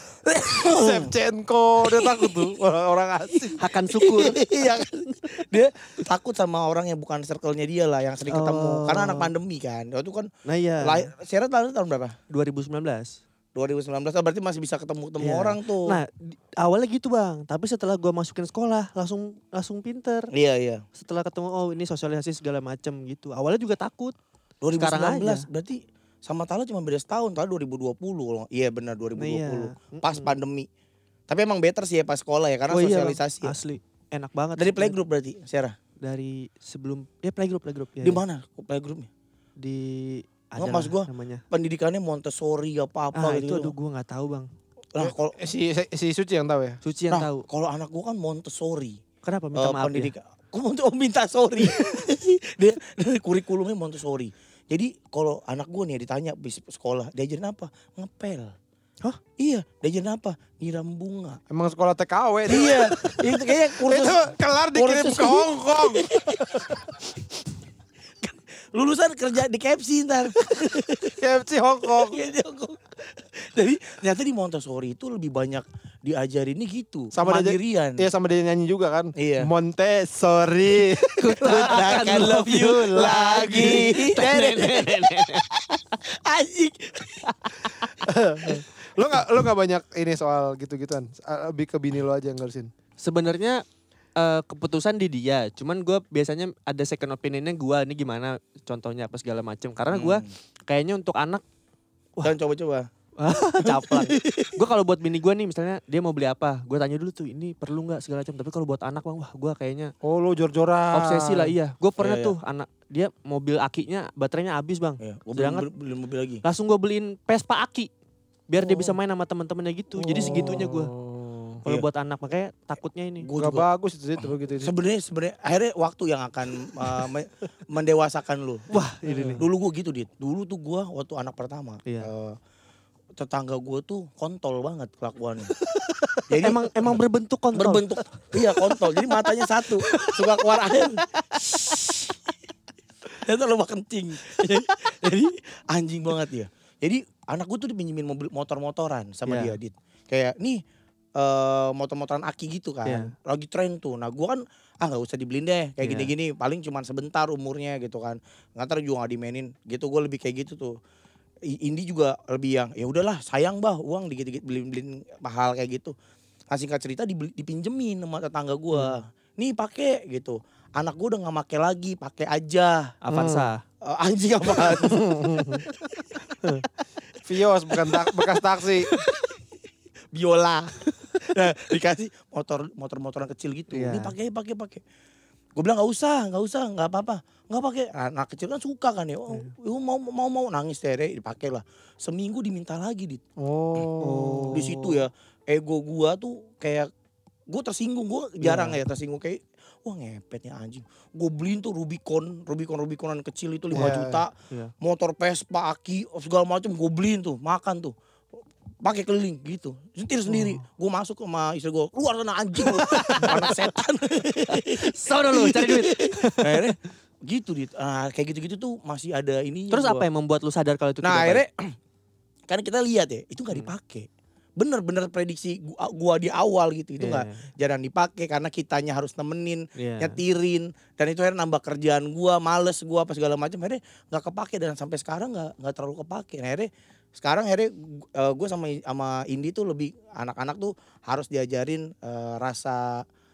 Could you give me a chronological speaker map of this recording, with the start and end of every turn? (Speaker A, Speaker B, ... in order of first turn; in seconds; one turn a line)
Speaker A: 0.3-1.1
Speaker B: 0.6-3.6
Speaker A: 1.8-2.5
Speaker A: 3.3-10.3
Speaker C: 3.6-5.2
Speaker C: 8.3-9.3
Speaker C: 10.5-11.1
Speaker A: 10.8-12.2
Speaker C: 12.3-13.2
Speaker A: 13.6-16.0
Speaker C: 15.2-20.3
Speaker A: 20.3-20.9
Speaker C: 21.0-24.1
Speaker A: 24.6-30.7
Speaker C: 24.8-25.5
Speaker C: 29.2-30.4
Speaker A: 31.3-33.6
Speaker C: 32.7-35.0
Speaker A: 34.6-35.8
Speaker C: 36.0-38.2
Speaker A: 38.0-39.1
Speaker C: 39.6-41.4
Speaker A: 40.6-43.7
Speaker C: 43.1-44.5
Speaker A: 45.0-45.4
Speaker B: 45.0-46.8
Speaker C: 46.8-47.5
Speaker A: 47.1-49.0
Speaker C: 49.2-50.1
Speaker A: 49.5-58.5
Speaker A: 59.4-61.4
Speaker B: 61.5-66.8
Speaker A: 62.5-66.9
Speaker A: 68.2-71.2
Speaker B: 71.2-72.2
Speaker A: 71.8-78.1
Speaker B: 77.1-81.8
Speaker A: 79.2-79.5
Speaker C: 81.0-85.5
Speaker A: 81.4-87.7
Speaker B: 88.0-92.7
Speaker C: 93.0-93.6
Speaker C: 94.2-101.4
Speaker A: 99.9-100.3
Speaker A: 102.2-102.9
Speaker C: 103.2-109.9
Speaker A: 103.6-104.6
Speaker B: 110.0-111.5
Speaker C: 110.9-115.7
Speaker A: 112.0-112.4
Speaker A: 115.0-116.4
Speaker C: 116.4-117.9
Speaker C: 118.5-120.9
Speaker B: 120.0-121.6
Speaker C: 121.6-123.3
Speaker A: 123.2-123.7
Speaker B: 123.4-124.8
Speaker A: 124.5-128.7
Speaker C: 128.7-129.5
Speaker B: 129.1-129.4
Speaker A: 129.4-132.4
Speaker A: 133.2-135.6
Speaker C: 135.6-141.8
Speaker A: 136.3-137.0
Speaker A: 137.5-142.1
Speaker A: 143.1-150.6
Speaker C: 149.3-149.6
Speaker A: 151.2-160.8
Speaker C: 152.8-153.1
Speaker C: 155.8-156.1
Speaker A: 161.5-165.9
Speaker A: 166.5-172.9
Speaker C: 173.0-173.6
Speaker B: 173.1-173.5
Speaker A: 173.8-175.1
Speaker B: 174.7-175.7
Speaker B: 177.2-178.9
Speaker A: 180.1-184.8
Speaker C: 183.7-184.2
Speaker A: 185.6-193.2
Speaker B: 193.4-194.7
Speaker C: 194.0-195.0
Speaker A: 194.5-196.9
Speaker A: 197.5-207.9
Speaker C: 198.4-198.8
Speaker B: 203.7-204.2
Speaker C: 203.8-204.0
Speaker A: 208.8-220.1
Speaker C: 212.7-213.7
Speaker C: 214.5-216.7
Speaker C: 219.7-221.4
Speaker A: 221.0-221.8
Speaker A: 222.5-243.0
Speaker C: 227.0-227.4
Speaker C: 229.8-230.2